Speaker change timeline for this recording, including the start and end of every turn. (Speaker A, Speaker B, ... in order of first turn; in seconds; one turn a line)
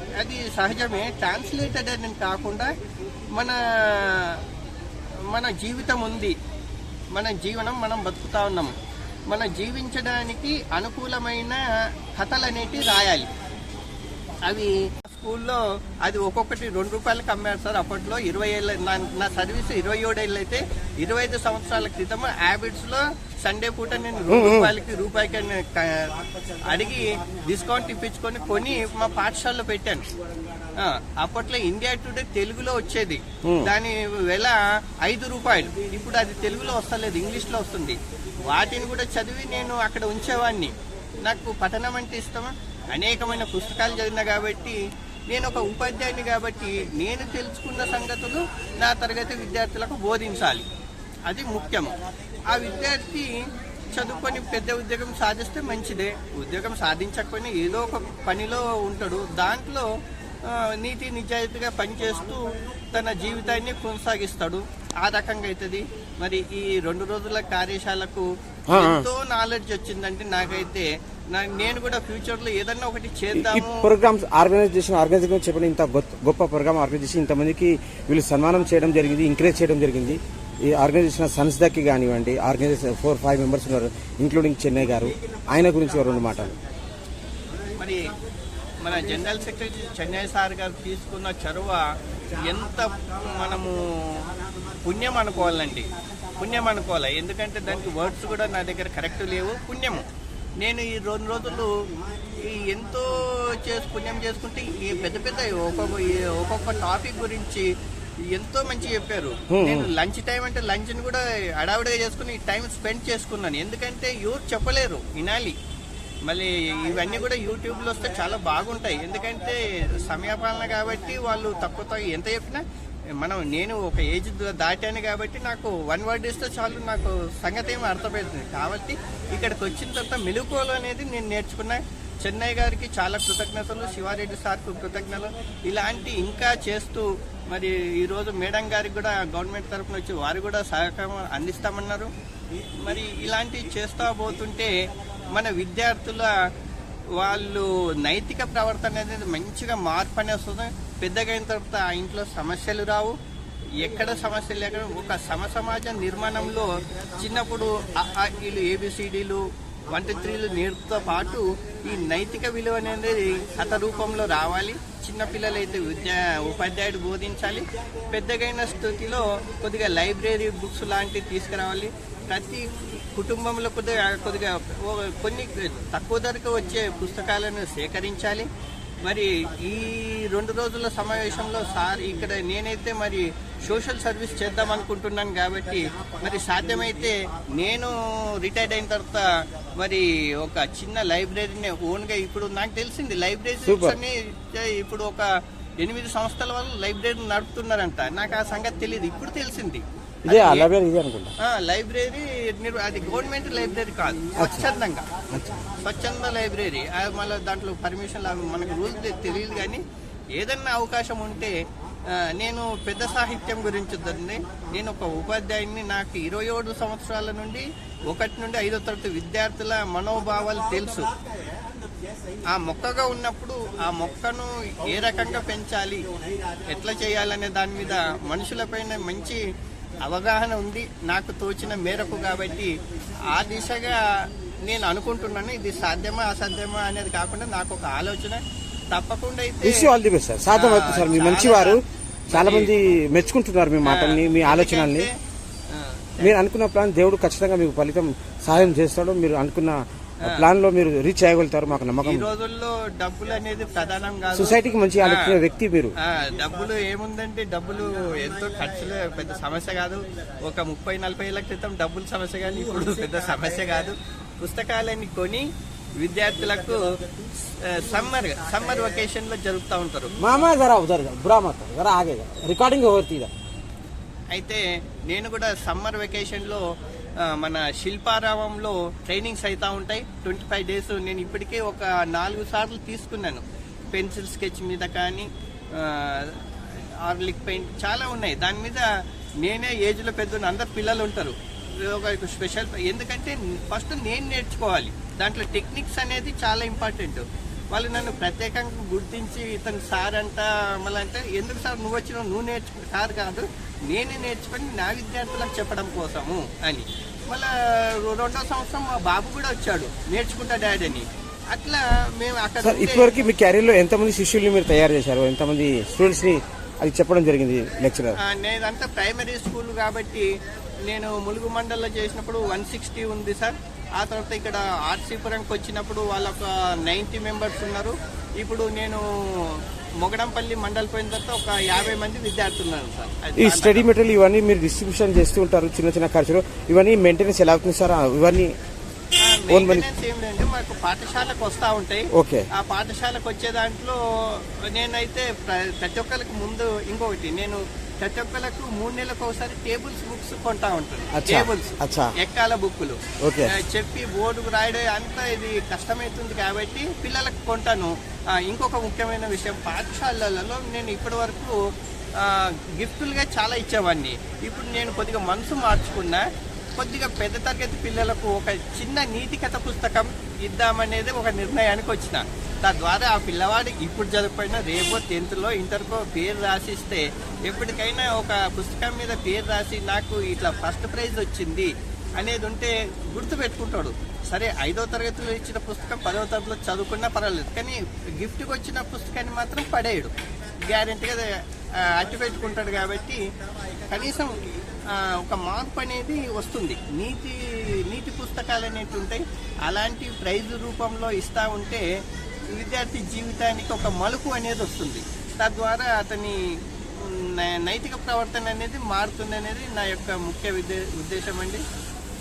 Speaker A: 0.2-2.7
Speaker A: 3.4-4.2
Speaker A: 5.3-6.3
Speaker A: 7.1-8.7
Speaker A: 9.3-11.6
Speaker A: 12.2-13.3
Speaker A: 14.4-25.8
Speaker B: 24.3-24.7
Speaker A: 26.7-30.1
Speaker A: 31.0-40.7
Speaker B: 33.4-33.7
Speaker A: 41.2-44.8
Speaker A: 45.3-50.6
Speaker A: 51.3-51.9
Speaker A: 52.5-53.3
Speaker A: 53.9-59.8
Speaker A: 60.8-73.8
Speaker B: 68.7-69.0
Speaker B: 73.3-86.5
Speaker A: 88.8-91.8
Speaker A: 92.3-93.8
Speaker A: 94.8-95.9
Speaker A: 96.4-100.0
Speaker A: 100.6-101.7
Speaker A: 102.5-107.7
Speaker A: 108.3-115.5
Speaker B: 109.5-109.9
Speaker A: 116.3-122.6
Speaker A: 123.2-142.1
Speaker A: 142.8-144.7
Speaker A: 145.3-146.3
Speaker A: 147.2-153.1
Speaker A: 153.8-156.7
Speaker A: 157.2-172.6
Speaker A: 173.1-178.4
Speaker A: 179.0-187.9
Speaker A: 188.4-189.2
Speaker A: 189.8-195.2
Speaker B: 193.7-194.0
Speaker A: 195.8-200.7
Speaker B: 200.2-201.3
Speaker A: 201.4-205.0
Speaker B: 204.4-204.6
Speaker B: 205.3-205.6
Speaker A: 205.8-209.8
Speaker A: 210.3-211.5
Speaker A: 212.3-221.1
Speaker A: 222.6-226.0
Speaker A: 226.7-229.4
Speaker A: 230.0-232.7
Speaker A: 233.3-234.0
Speaker A: 234.6-238.4
Speaker A: 238.9-239.7
Speaker B: 239.6-245.1
Speaker A: 240.5-242.7
Speaker A: 243.8-245.1
Speaker A: 245.7-246.4
Speaker B: 246.2-252.2
Speaker A: 252.0-255.3
Speaker B: 254.3-255.9
Speaker A: 256.0-265.4
Speaker A: 266.0-266.8
Speaker A: 267.6-270.1
Speaker B: 270.2-273.3
Speaker A: 274.3-276.6
Speaker A: 277.3-285.3
Speaker A: 285.8-286.4
Speaker A: 287.1-288.8
Speaker A: 289.4-313.2
Speaker B: 312.6-318.2
Speaker A: 318.2-320.3
Speaker A: 320.9-329.0
Speaker A: 330.0-333.9
Speaker B: 333.4-338.5
Speaker A: 339.2-357.9
Speaker B: 339.5-339.9
Speaker B: 342.1-342.4
Speaker B: 351.1-352.1
Speaker B: 353.2-353.5
Speaker A: 358.4-361.5
Speaker A: 362.2-366.2
Speaker A: 366.8-390.1
Speaker A: 390.7-391.2
Speaker A: 391.9-393.2
Speaker A: 393.9-394.3
Speaker A: 395.1-397.4
Speaker A: 397.9-401.8
Speaker A: 402.5-406.3
Speaker A: 407.0-411.6